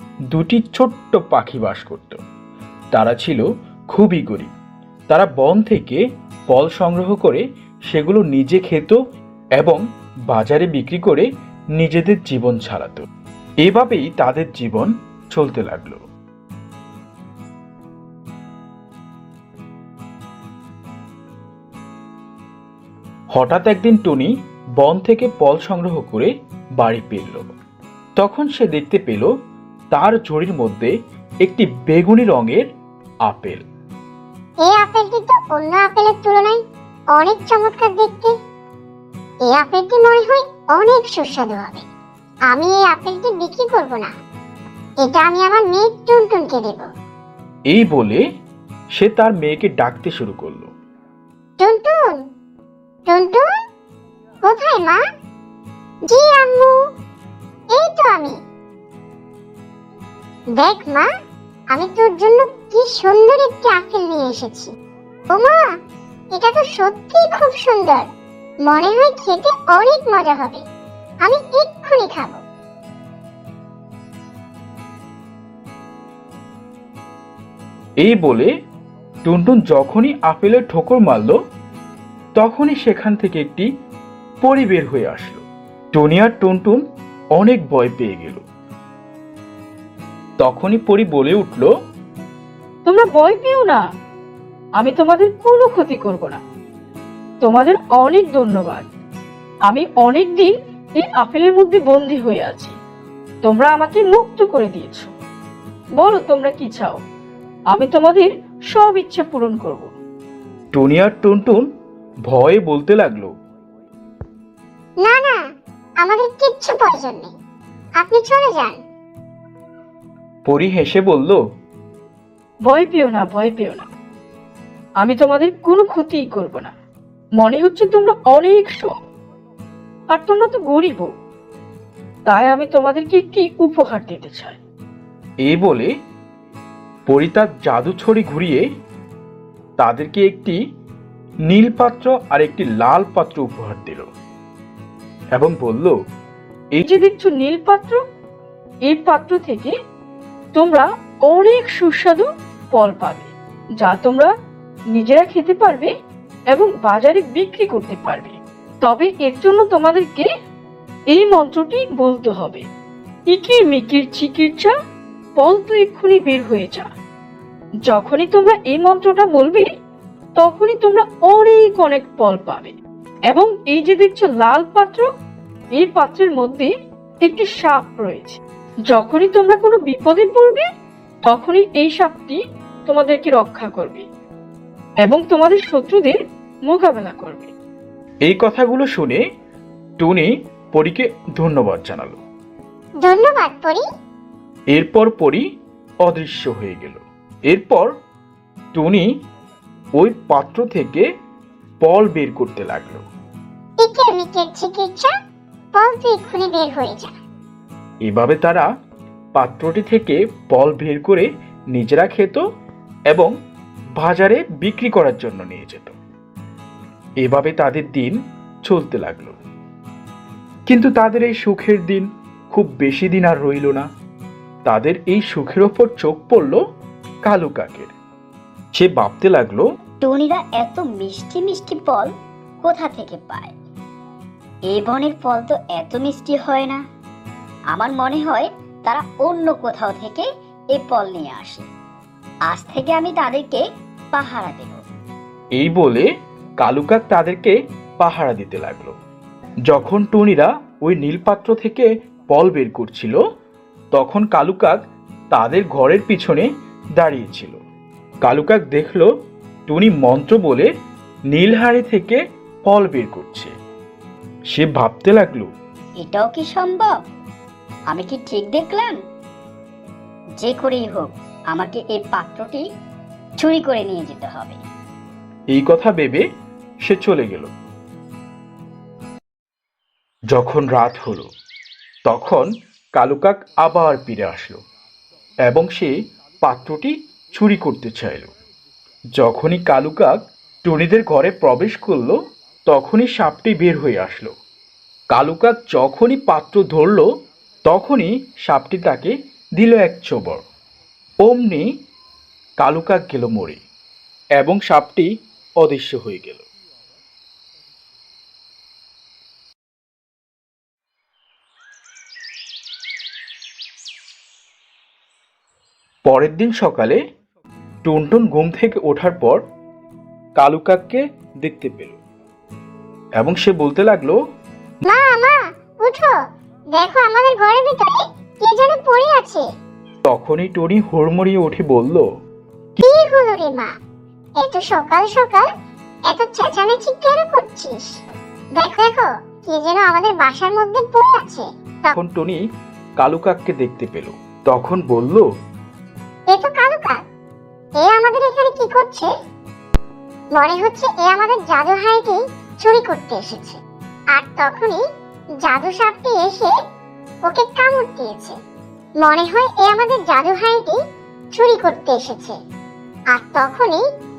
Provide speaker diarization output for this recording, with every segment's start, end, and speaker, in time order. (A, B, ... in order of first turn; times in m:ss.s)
0:00.3-0:02.2 A
0:02.9-0:04.5 A
0:05.1-0:09.0 A
0:09.6-0:11.3 A
0:11.8-0:13.0 A
0:13.6-0:16.0 A
0:23.4-0:27.4 A
0:28.2-0:29.3 A
0:29.9-0:30.9 A
0:31.4-0:32.7 A
0:33.3-0:33.6 A
0:34.6-0:36.6 B
0:37.2-0:38.3 B
0:39.5-0:41.8 B
0:42.5-0:44.1 B
0:45.0-0:46.9 B
0:47.7-0:48.2 A
0:49.0-0:50.7 A
0:51.6-0:52.2 B
0:53.1-0:53.4 B
0:54.5-0:55.0 B
0:56.1-0:56.8 B
0:57.7-0:58.4 B
1:00.6-1:01.1 B
1:01.7-1:04.7 B
1:05.3-1:05.6 B
1:06.3-1:08.1 B
1:08.7-1:10.6 B
1:11.2-1:12.4 B
1:18.0-1:18.5 A
1:19.2-1:21.4 A
1:22.4-1:23.7 A
1:24.4-1:26.8 A
1:27.4-1:28.4 A
1:30.4-1:31.7 A
1:32.8-1:33.8 C
1:34.8-1:36.4 C
1:37.4-1:38.9 C
1:39.7-1:42.8 C
1:43.4-1:45.1 C
1:46.0-1:47.0 C
1:47.7-1:49.9 C
1:50.7-1:51.7 A
1:52.3-1:53.3 A
1:55.0-1:55.4 B
1:56.0-1:57.3 B
1:58.0-1:58.8 B
2:00.4-2:01.4 A
2:02.7-2:03.9 C
2:05.0-2:06.7 C
2:07.4-2:09.0 C
2:10.1-2:11.1 C
2:12.3-2:14.6 C
2:15.4-2:15.9 A
2:17.1-2:18.7 A
2:19.8-2:20.6 A
2:21.5-2:24.1 A
2:25.4-2:26.0 A
2:26.8-2:28.0 C
2:28.9-2:29.8 C
2:30.6-2:34.3 C
2:34.9-2:35.9 C
2:36.5-2:40.3 C
2:41.1-2:42.7 C
2:43.3-2:44.8 C
2:45.4-2:46.9 C
2:47.9-2:49.7 C
2:50.4-2:52.8 C
2:53.3-2:55.1 C
2:55.7-3:00.7 C
3:01.3-3:04.1 C
3:05.0-3:07.5 C
3:08.3-3:09.2 A
3:10.0-3:12.2 A
3:13.0-3:13.8 B
3:14.7-3:15.5 A
3:16.0-3:17.9 A
3:18.7-3:19.1 A
3:20.0-3:21.0 A
3:21.8-3:23.0 A
3:23.8-3:25.1 B
3:25.8-3:27.1 B
3:28.1-3:28.7 A
3:29.4-3:32.4 A
3:34.0-3:36.0 A
3:37.2-3:39.4 A
3:40.7-3:43.9 A
3:44.7-3:46.6 A
3:47.3-3:47.9 A
3:48.8-3:49.6 A
3:50.0-3:52.1 D
3:52.6-3:53.6 D
3:54.7-3:56.8 D
3:57.7-4:01.7 D
4:02.5-4:04.8 D
4:05.6-4:06.1 A
4:06.6-4:09.0 A
4:09.7-4:13.2 A
4:13.9-4:14.8 A
4:15.3-4:17.6 A
4:18.2-4:19.1 A
4:19.7-4:20.7 A
4:21.3-4:23.5 A
4:24.5-4:25.5 A
4:26.0-4:27.0 D
4:27.9-4:29.0 D
4:30.4-4:32.7 D
4:33.4-4:34.6 D
4:35.5-4:36.2 A
4:36.9-4:37.5 A
4:40.3-4:41.3 A
4:42.1-4:44.6 A
4:45.4-4:48.3 A
4:49.2-4:52.2 A
4:52.7-4:54.3 A
4:55.1-4:57.1 A
4:57.7-5:00.4 A
5:01.2-5:01.7 A
5:02.6-5:03.6 A
5:04.4-5:05.1 A
5:05.6-5:06.4 A
5:16.0-5:17.0 A
5:17.8-5:19.4 A
5:20.4-5:22.0 A
5:23.2-5:24.2 A
5:24.8-5:26.2 B
5:26.8-5:29.5 B
5:30.1-5:32.0 A
5:32.8-5:33.7 B
5:34.4-5:35.5 B
5:36.1-5:38.0 B
5:38.6-5:42.0 B
5:41.9-5:42.4 A
5:43.0-5:45.2 A
5:46.3-5:47.0 B
5:47.8-5:49.1 B
5:50.4-5:53.6 B
5:54.1-5:54.8 B
5:55.4-5:56.5 B
5:57.2-5:58.4 B
5:59.0-6:00.8 B
6:01.3-6:02.4 B
6:03.1-6:03.8 B